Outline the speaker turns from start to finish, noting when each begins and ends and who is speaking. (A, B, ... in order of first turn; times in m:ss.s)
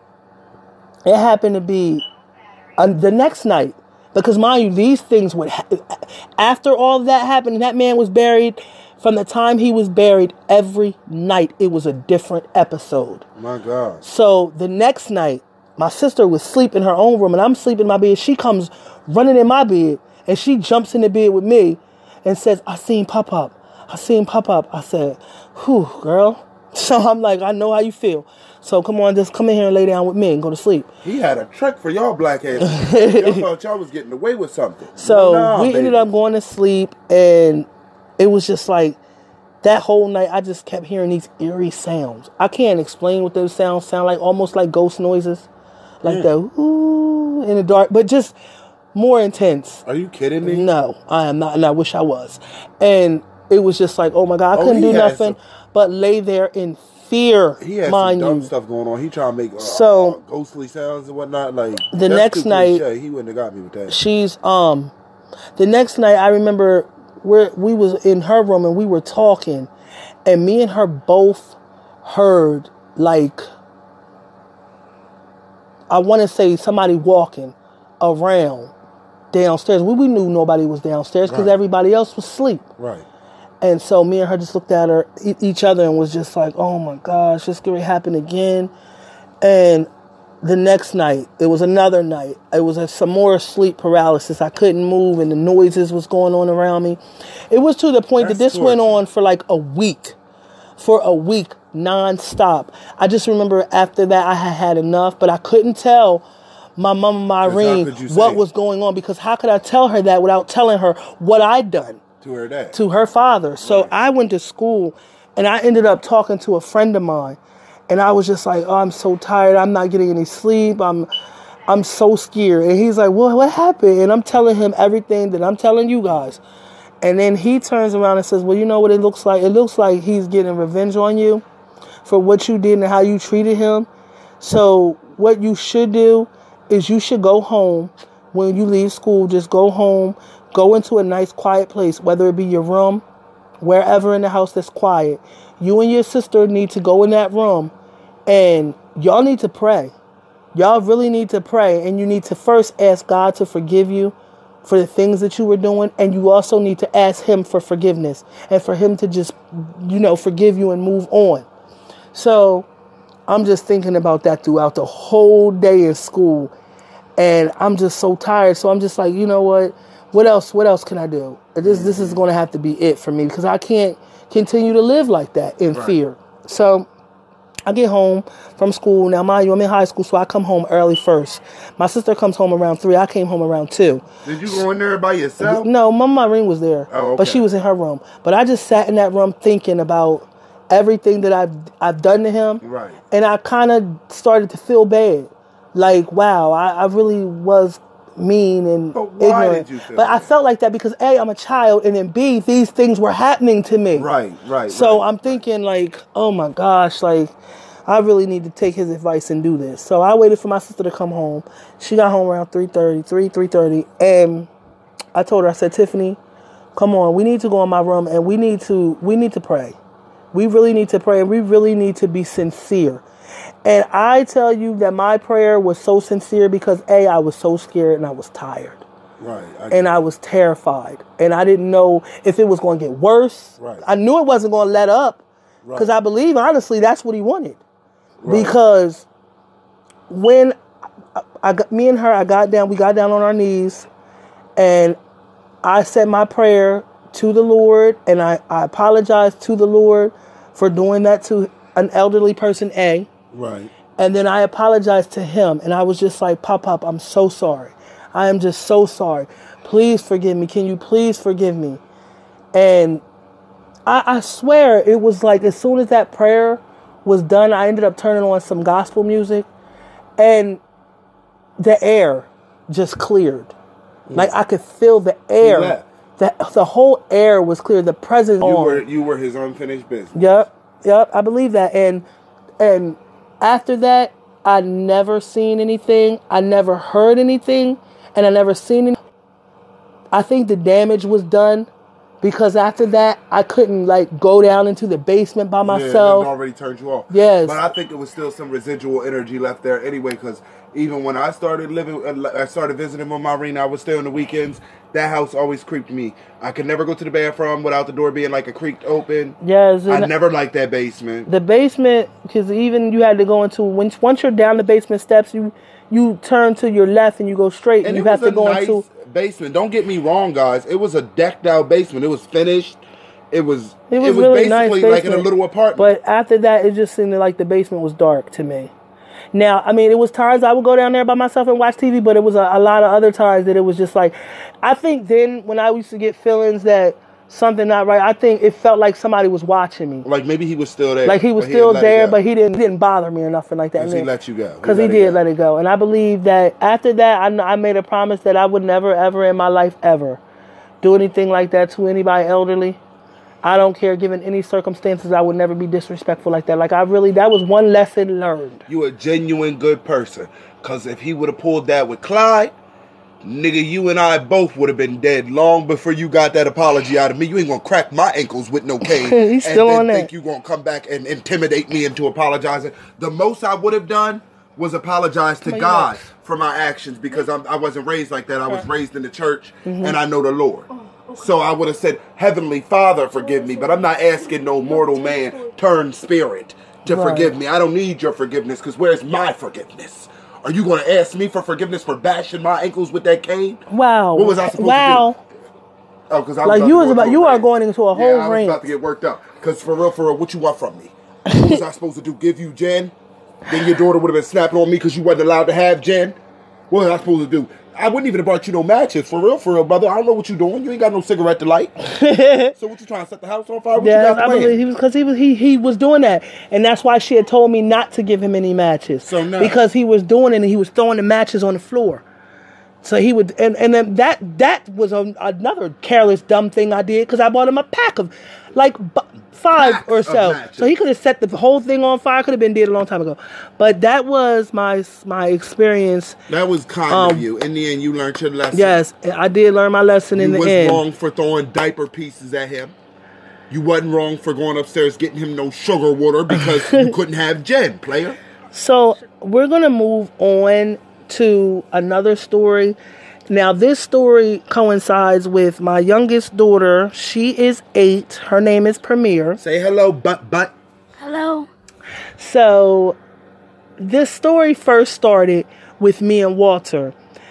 0:01.0-0:02.0 A
0:02.8-0:13.3 A
0:13.4-0:14.0 B
0:14.0-0:30.9 A
0:31.0-0:36.1 B
0:32.6-0:33.4 A
0:35.0-0:37.7 A
0:38.2-0:39.0 A
0:39.6-0:45.5 A
0:46.0-0:48.4 A
0:48.9-0:49.8 A
0:49.8-0:50.7 B
0:50.4-0:58.5 A
0:54.5-0:55.4 B
0:57.6-1:04.0 B
0:59.6-1:00.2 A
1:01.9-1:02.8 A
1:03.9-1:04.9 A
1:05.6-1:09.7 A
1:10.3-1:13.4 A
1:15.9-1:18.7 A
1:19.3-1:22.6 A
1:21.3-1:21.5 B
1:22.8-1:23.0 B
1:23.6-1:28.7 A
1:29.4-1:29.9 A
1:30.4-1:37.0 A
1:37.5-1:40.2 A
1:38.2-1:39.0 B
1:40.8-1:46.2 A
1:46.8-1:52.0 A
1:47.4-1:48.4 B
1:52.2-1:52.8 B
1:52.7-1:57.4 A
1:53.6-1:53.9 B
1:57.9-2:01.1 A
2:01.7-2:06.4 A
2:07.0-2:11.4 A
2:12.0-2:13.9 A
2:14.4-2:23.0 A
2:23.6-2:27.7 A
2:28.3-2:29.9 A
2:30.6-2:41.5 A
2:42.1-2:42.7 A
2:43.3-2:46.5 A
2:47.2-2:56.9 A
2:51.6-2:52.2 B
2:57.7-3:04.1 A
3:04.2-3:05.7 B
3:05.4-3:24.1 A
3:06.9-3:07.4 B
3:12.6-3:13.0 B
3:19.0-3:20.3 B
3:24.0-3:25.1 B
3:24.7-3:27.4 A
3:27.9-3:34.5 A
3:35.2-3:36.2 A
3:36.8-3:39.8 A
3:40.3-3:43.0 A
3:43.6-3:48.8 A
3:49.2-3:50.0 B
3:49.7-3:55.2 A
3:55.6-3:55.9 B
3:55.8-3:57.6 A
3:58.2-3:58.6 B
3:58.3-3:59.1 A
4:00.1-4:00.6 A
4:01.2-4:03.9 A
4:04.6-4:05.0 A
4:05.6-4:13.1 A
4:13.3-4:13.7 B
4:14.0-4:21.8 A
4:22.5-4:23.0 A
4:23.9-4:29.5 A
4:30.2-4:30.6 A
4:31.6-4:33.5 A
4:34.1-4:38.8 A
4:35.4-4:35.8 B
4:38.4-4:40.4 B
4:40.1-4:42.1 A
4:42.6-4:49.0 A
4:50.1-4:51.7 A
4:52.2-4:56.3 A
4:55.6-5:09.4 B
4:57.1-4:57.6 A
5:09.4-5:10.1 A
5:09.9-5:11.3 B
5:11.3-5:18.9 A
5:17.8-5:22.8 B
5:23.3-5:25.9 B
5:23.9-5:28.7 A
5:29.3-5:40.1 A
5:40.0-5:42.2 B
5:41.1-5:44.1 A
5:43.8-5:45.2 B
5:44.6-5:50.2 A
5:50.8-5:52.8 A
5:53.4-5:58.7 A
5:58.7-6:02.5 B
6:03.2-6:33.6 B
6:08.8-6:10.1 A
6:15.4-6:16.1 A
6:19.6-6:20.0 A
6:23.2-6:25.5 C
6:26.9-6:27.4 A
6:33.7-6:35.2 A
6:34.2-6:35.1 B
6:36.1-6:42.9 B
6:36.4-6:38.6 A
6:41.3-6:41.6 A
6:43.5-6:46.2 B
6:46.7-6:51.7 B
6:51.8-6:52.5 A
6:52.6-6:54.6 B
6:53.8-7:02.0 A
6:59.0-6:59.6 B
7:02.8-7:16.2 A
7:09.6-7:10.7 B
7:16.3-7:18.8 B
7:16.9-7:17.2 A
7:18.5-7:20.8 A
7:20.1-7:22.8 B
7:23.5-7:28.2 B
7:26.3-7:26.9 A
7:28.5-7:32.8 A
7:33.3-7:39.4 A
7:39.4-7:40.5 B
7:41.0-7:41.5 C
7:42.2-7:43.0 A
7:43.8-7:47.0 A